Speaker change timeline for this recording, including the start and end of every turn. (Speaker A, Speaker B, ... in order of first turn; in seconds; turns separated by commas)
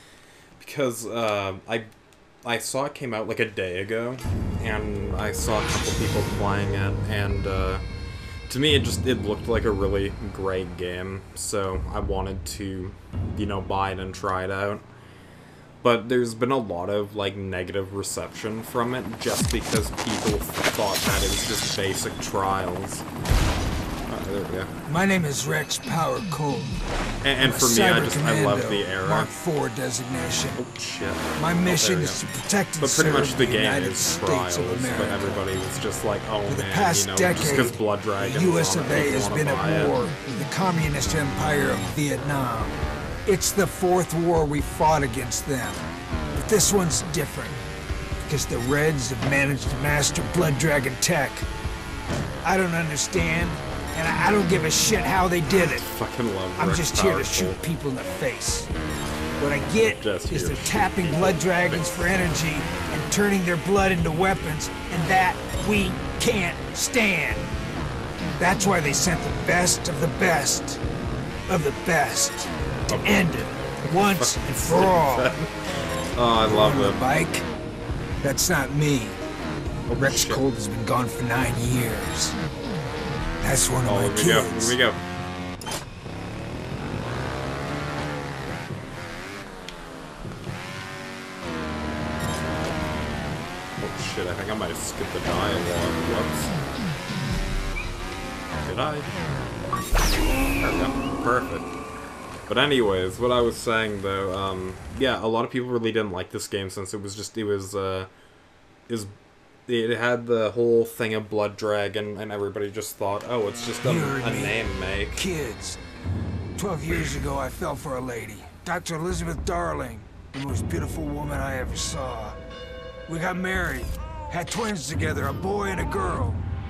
Speaker A: 0.6-1.9, Speaker A: 2.4-7.8, Speaker A: 8.5-14.8, Speaker A: 15.8-23.1, Speaker A: 24.1-24.7, Speaker B: 24.8-26.8, Speaker A: 27.2-29.3, Speaker B: 27.4-30.6, Speaker A: 30.6-32.2, Speaker B: 31.4-35.4, Speaker A: 32.8-40.0, Speaker B: 36.5-45.8, Speaker B: 46.3-47.6, Speaker B: 48.2-51.5, Speaker B: 52.4-55.9, Speaker A: 55.5-57.6, Speaker B: 56.5-58.7, Speaker B: 59.4-67.5, Speaker A: 59.8-62.1, Speaker B: 68.4-70.8, Speaker B: 71.5-75.3, Speaker A: 72.9-75.5, Speaker A: 76.2-77.0, Speaker B: 76.5-77.5, Speaker B: 78.2-79.2, Speaker A: 79.9-80.5, Speaker B: 80.0-82.4, Speaker B: 83.4-84.8, Speaker A: 83.8-85.0, Speaker A: 93.8-96.5, Speaker A: 98.6-99.1, Speaker A: 100.6-101.7, Speaker A: 102.5-108.1, Speaker A: 109.7-115.2, Speaker B: 113.8-115.8, Speaker B: 116.6-122.4, Speaker B: 123.1-126.5